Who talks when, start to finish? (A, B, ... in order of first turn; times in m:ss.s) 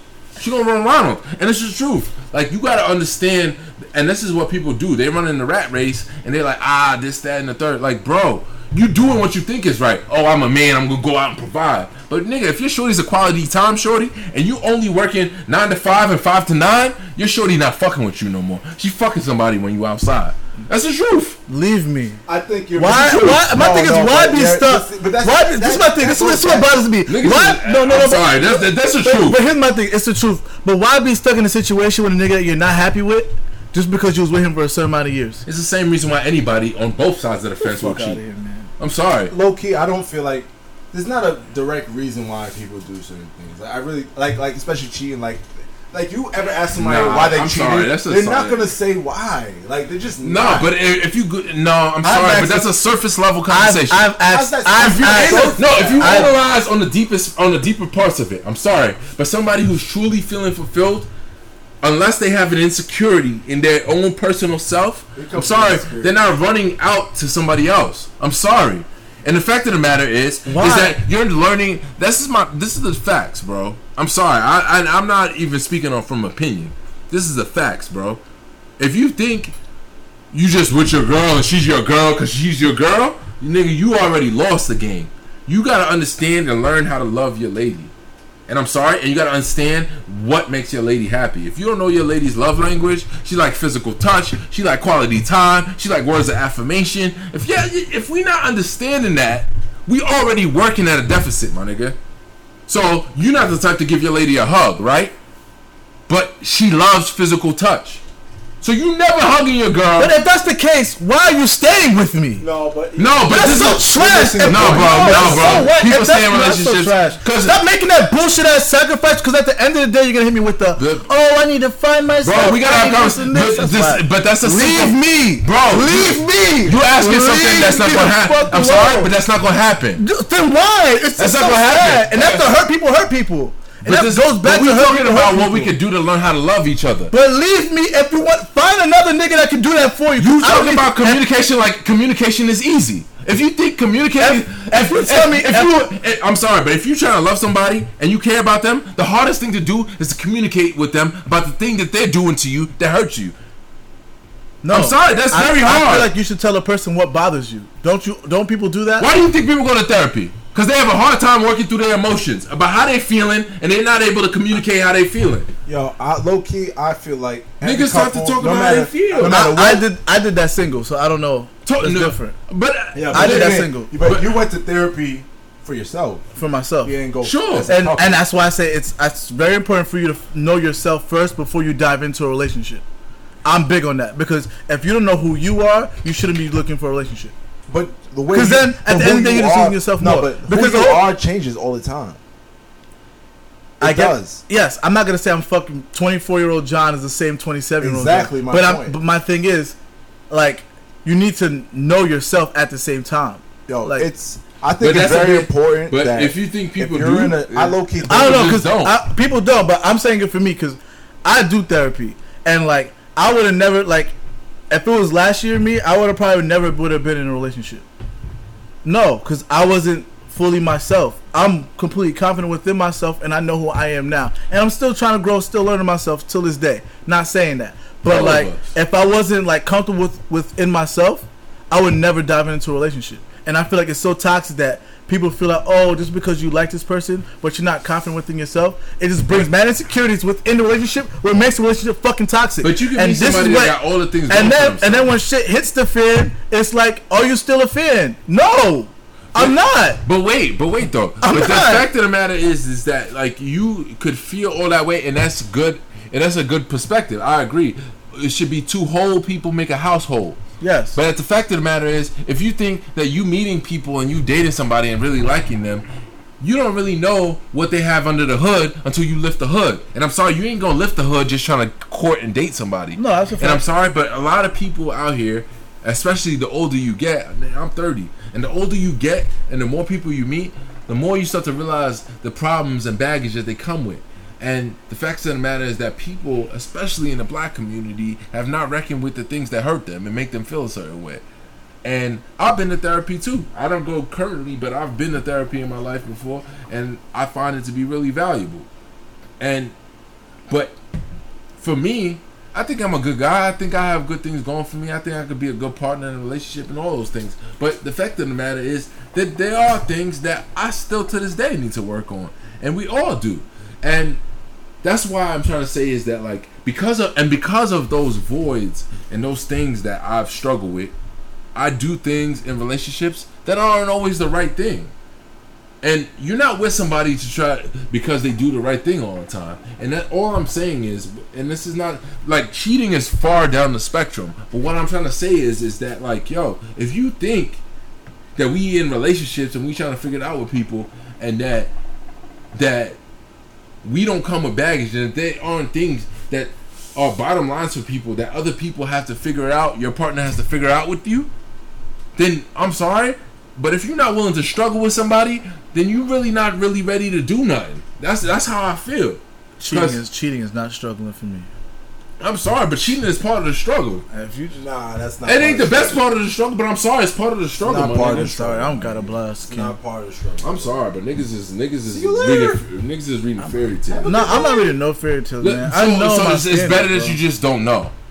0:00.4-0:21.4 A
0:21.5-0:22.2 B
0:22.2-0:26.8 C
0:22.8-0:35.4 B
0:27.1-0:29.4 A
0:35.4-0:38.2 A
0:37.6-0:38.7 B
0:38.8-0:39.3 A
0:39.3-0:50.7 C
0:46.7-0:48.7 A
0:50.2-0:54.1 A
0:52.0-0:52.7 B
0:53.5-0:56.3 B
0:54.3-0:56.3 C
0:54.8-1:01.1 A
1:01.8-1:18.2 A
1:05.1-1:06.2 C
1:10.4-1:11.0 B
1:18.8-1:19.5 A
1:20.3-1:27.9 A
1:28.5-1:42.0 A
1:42.7-1:45.1 A
1:46.1-1:48.0 A
1:48.6-1:50.2 A
1:50.0-1:52.4 B
1:52.4-1:55.7 C
1:53.0-1:53.9 A
1:53.3-2:09.1 B
1:54.4-1:57.6 A
2:00.8-2:01.1 A
2:02.2-2:10.0 A
2:10.0-2:15.7 B
2:11.2-2:12.6 A
2:13.8-2:17.1 A
2:17.1-2:21.2 B
2:20.2-2:33.4 A
2:24.2-2:25.9 B
2:34.6-2:39.1 B
2:34.7-2:36.1 A
2:39.0-2:45.5 A
2:45.6-2:49.9 C
2:47.6-2:49.4 A
2:49.2-2:52.4 B
2:51.6-2:54.4 A
2:52.9-2:56.3 C
2:53.1-2:53.9 B
2:56.3-2:56.9 B
2:56.8-2:58.2 C
2:57.2-2:57.7 A
2:57.7-3:02.8 B
3:03.4-3:07.3 B
3:07.7-3:12.2 C
3:08.3-3:11.1 B
3:13.8-3:14.4 C
3:13.8-3:19.8 B
3:17.8-3:19.0 C
3:20.3-3:24.1 B
3:23.7-3:28.6 C
3:24.8-3:29.0 A
3:28.1-3:34.1 B
3:34.7-3:37.8 B
3:38.8-4:10.0 B
3:48.0-3:48.7 A
4:02.6-4:05.1 A
4:09.3-4:20.4 A
4:11.2-4:11.8 B
4:20.6-4:21.0 B
4:20.9-4:25.8 A
4:26.4-4:51.2 A
4:32.9-4:33.6 B
4:51.8-4:58.7 A
4:59.4-4:59.7 A
5:00.5-5:00.8 A
5:01.6-5:14.2 A
5:14.8-5:20.9 A
5:21.5-5:24.9 A
5:25.8-5:37.6 A
5:38.4-5:41.7 A
5:42.5-5:43.0 A
5:43.8-5:51.3 A
5:52.2-6:00.0 A
5:59.6-6:01.5 B
6:02.2-6:04.0 A
6:04.1-6:04.6 B
6:04.5-6:06.0 C
6:05.2-6:08.4 A
6:07.6-6:10.8 C
6:08.1-6:09.8 B
6:10.4-6:14.5 A
6:11.9-6:12.6 C
6:13.4-6:14.7 C
6:14.0-6:17.2 B
6:15.4-6:17.9 A